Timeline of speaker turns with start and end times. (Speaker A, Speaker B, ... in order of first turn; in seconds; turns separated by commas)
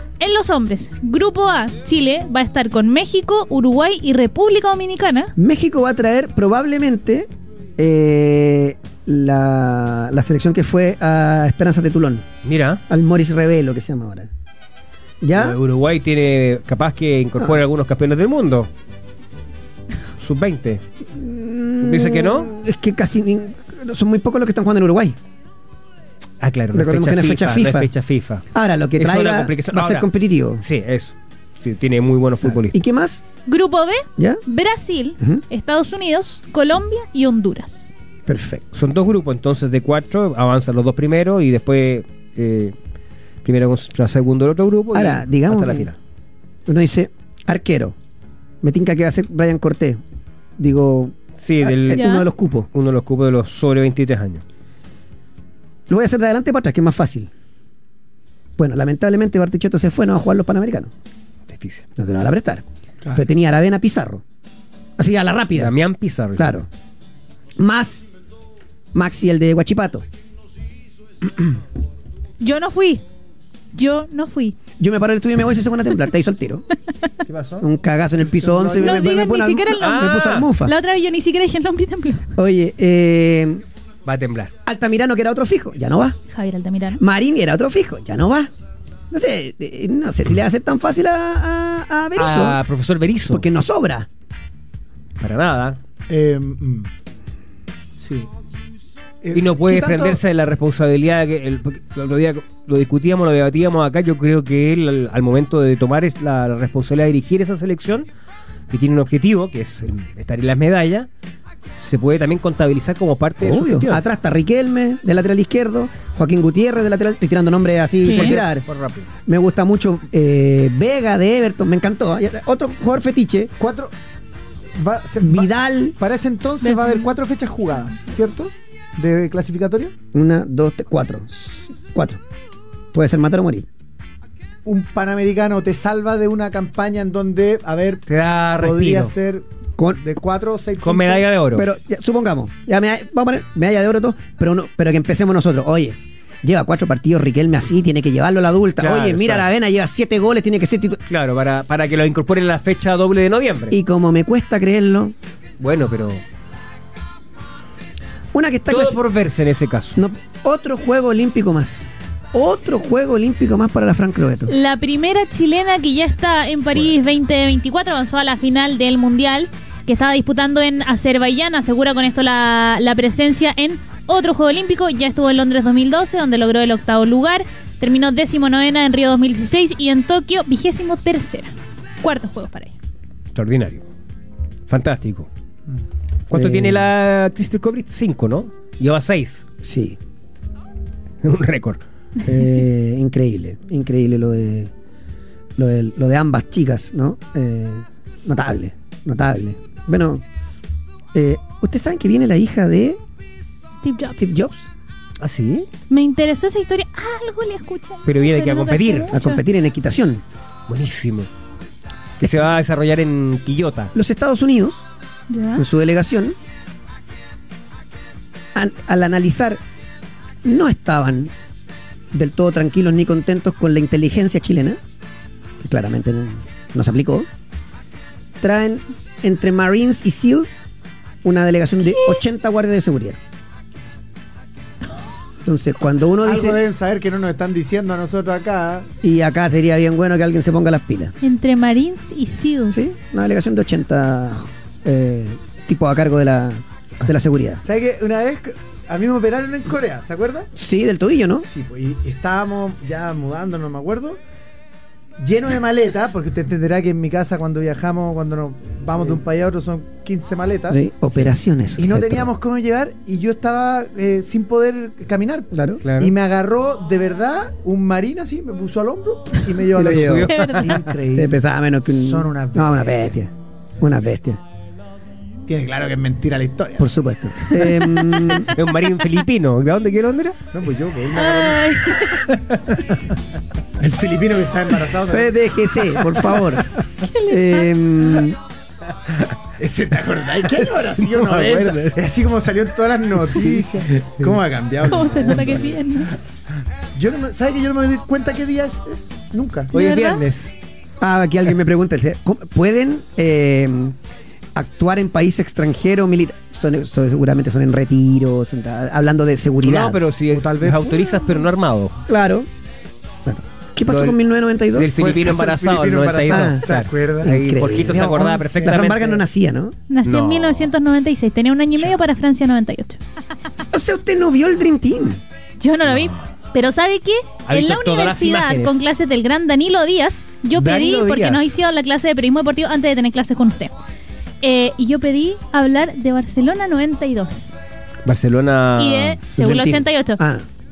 Speaker A: 0.2-5.3, Speaker B: 5.4-12.2, Speaker C: 12.4-12.8, Speaker B: 12.9-14.3, Speaker B: 15.2-15.6, Speaker C: 15.3-18.7, Speaker C: 20.2-20.8, Speaker B: 21.1-25.2, Speaker C: 21.8-22.5, Speaker C: 26.4-28.4, Speaker B: 26.7-27.9, Speaker B: 28.5-30.6, Speaker C: 29.0-30.1, Speaker C: 30.6-32.8, Speaker B: 32.4-33.2, Speaker A: 33.5-37.9, Speaker B: 34.2-34.4, Speaker B: 38.3-38.6, Speaker C: 38.7-42.7, Speaker C: 43.4-46.0, Speaker B: 44.9-45.9, Speaker B: 46.7-48.0, Speaker B: 48.6-50.0, Speaker B: 50.6-52.7, Speaker C: 51.4-54.4, Speaker A: 51.9-52.2, Speaker B: 55.9-57.3, Speaker B: 58.6-60.9, Speaker C: 61.5-61.9, Speaker B: 62.0-64.2, Speaker B: 65.0-65.7, Speaker C: 65.6-66.6, Speaker B: 66.4-66.7, Speaker B: 67.6-68.1, Speaker B: 68.9-70.0, Speaker A: 72.4-73.0, Speaker A: 73.7-74.6, Speaker B: 74.8-76.7, Speaker C: 77.3-77.7, Speaker B: 77.6-80.8, Speaker D: 78.3-79.0, Speaker A: 78.8-82.2, Speaker C: 79.8-80.5, Speaker B: 82.4-83.6, Speaker C: 84.1-84.5, Speaker B: 84.7-86.2, Speaker A: 86.3-87.0, Speaker B: 87.0-88.5, Speaker B: 89.1-92.6, Speaker C: 92.2-93.5, Speaker B: 93.3-94.1, Speaker C: 95.2-95.8, Speaker D: 96.1-96.9, Speaker D: 98.0-98.3, Speaker D: 99.2-100.2, Speaker C: 99.3-108.1, Speaker C: 108.7-111.1, Speaker C: 111.8-114.0, Speaker B: 113.4-118.7, Speaker C: 118.0-119.1, Speaker A: 118.0-118.3, Speaker B: 119.3-123.5, Speaker D: 123.6-123.9, Speaker D: 124.8-129.9, Speaker B: 125.2-126.0, Speaker A: 126.7-127.0, Speaker B: 130.1-132.2, Speaker B: 132.9-133.7, Speaker D: 134.7-138.1, Speaker C: 138.1-139.1, Speaker D: 138.6-141.3, Speaker C: 140.8-141.7, Speaker B: 141.5-151.0, Speaker C: 148.8-149.5, Speaker C: 151.1-153.8, Speaker B: 153.7-155.1, Speaker C: 155.6-156.2, Speaker B: 158.3-159.0, Speaker C: 158.7-160.0, Speaker B: 160.0-164.5, Speaker A: 164.5-182.7, Speaker C: 183.3-183.8, Speaker C: 184.7-185.3, Speaker C: 186.3-189.4, Speaker B: 186.3-186.9, Speaker B: 189.6-190.0, Speaker C: 191.2-191.8, Speaker B: 192.2-194.7, Speaker B: 195.6-200.2, Speaker B: 201.1-203.0, Speaker A: 203.7-204.4, Speaker B: 204.1-204.7, Speaker C: 205.2-205.7, Speaker A: 205.9-209.4, Speaker C: 208.1-209.1, Speaker B: 209.1-210.2, Speaker C: 210.7-211.3, Speaker C: 212.2-213.9, Speaker B: 213.9-214.8, Speaker A: 215.3-215.6, Speaker B: 215.6-216.4, Speaker B: 218.6-219.6, Speaker B: 220.4-221.3, Speaker B: 222.1-224.8, Speaker B: 225.6-227.3, Speaker B: 228.4-230.6, Speaker B: 231.2-233.2, Speaker B: 235.4-236.6, Speaker D: 236.2-238.9, Speaker B: 239.0-241.2, Speaker A: 241.2-242.9, Speaker B: 242.7-247.6, Speaker D: 247.6-250.5, Speaker B: 250.6-251.5, Speaker D: 251.4-254.2, Speaker D: 255.2-261.2, Speaker B: 260.7-262.3, Speaker D: 261.8-273.2, Speaker B: 265.5-265.8, Speaker C: 265.8-266.1, Speaker B: 269.8-270.3, Speaker C: 269.9-270.8, Speaker A: 270.4-270.7, Speaker B: 271.1-274.4, Speaker D: 275.5-277.8, Speaker B: 276.8-278.5, Speaker C: 278.3-280.4, Speaker D: 280.5-281.9, Speaker A: 281.1-282.3, Speaker C: 282.1-282.8, Speaker D: 283.8-286.0, Speaker B: 285.1-286.7, Speaker A: 287.0-287.7, Speaker B: 287.3-288.4, Speaker D: 289.6-295.8, Speaker C: 291.1-291.9, Speaker A: 294.9-296.1, Speaker C: 295.3-295.6, Speaker D: 296.9-299.7, Speaker A: 299.7-300.2, Speaker C: 299.7-300.5, Speaker B: 301.0-304.0, Speaker B: 304.6-310.0, Speaker C: 309.6-312.0, Speaker D: 310.3-311.2, Speaker B: 312.1-312.5, Speaker B: 313.3-314.9, Speaker C: 313.9-314.2, Speaker C: 314.7-319.2, Speaker D: 314.9-318.8, Speaker B: 316.3-316.6, Speaker B: 317.2-319.8, Speaker A: 319.9-323.0, Speaker C: 320.1-320.7, Speaker B: 323.7-325.2, Speaker A: 325.6-333.8, Speaker C: 325.9-326.1, Speaker C: 327.5-328.8, Speaker D: 330.6-331.5, Speaker A: 334.4-337.5, Speaker C: 338.1-339.9, Speaker A: 338.8-340.2, Speaker B: 340.2-340.5